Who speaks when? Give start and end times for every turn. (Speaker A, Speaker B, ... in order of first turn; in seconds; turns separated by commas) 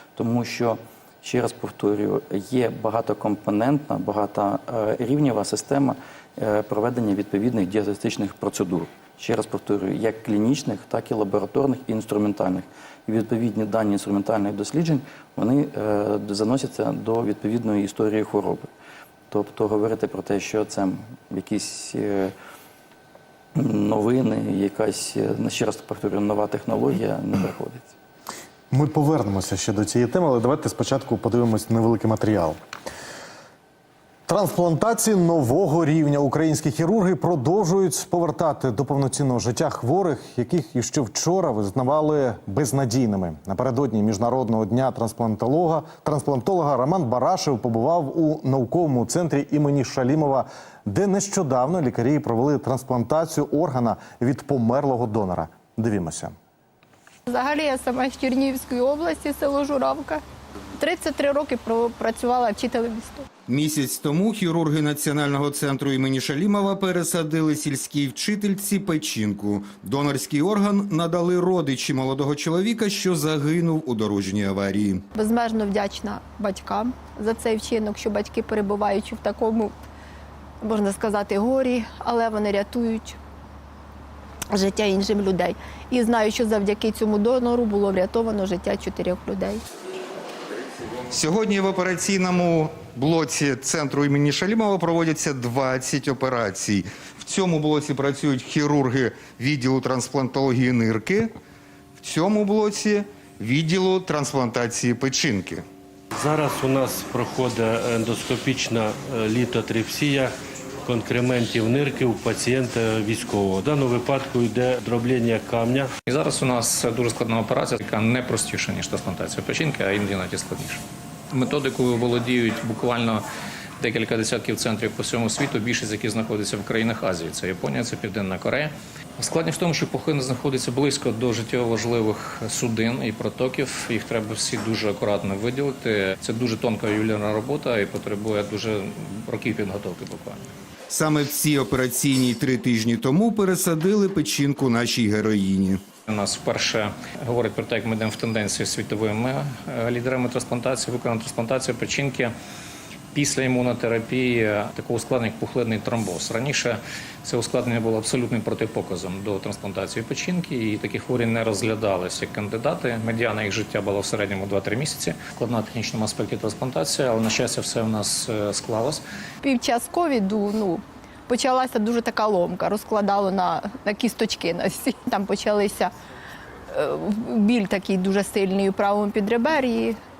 Speaker A: 0.1-18.7, Speaker A: 19.3-22.3, Speaker A: 23.6-27.9, Speaker B: 28.7-32.6, Speaker B: 34.3-56.4, Speaker C: 57.3-60.2, Speaker C: 60.8-63.3, Speaker D: 63.5-75.0, Speaker C: 75.1-79.7, Speaker C: 80.6-83.2, Speaker C: 84.5-89.6, Speaker D: 91.1-101.3, Speaker D: 102.0-105.6, Speaker E: 106.1-110.3, Speaker E: 110.8-115.9, Speaker F: 116.1-123.2, Speaker F: 123.8-140.5, Speaker D: 140.9-145.8, Speaker F: 146.1-152.3, Speaker F: 153.1-169.0, Speaker C: 169.4-175.9, Speaker C: 176.7-180.0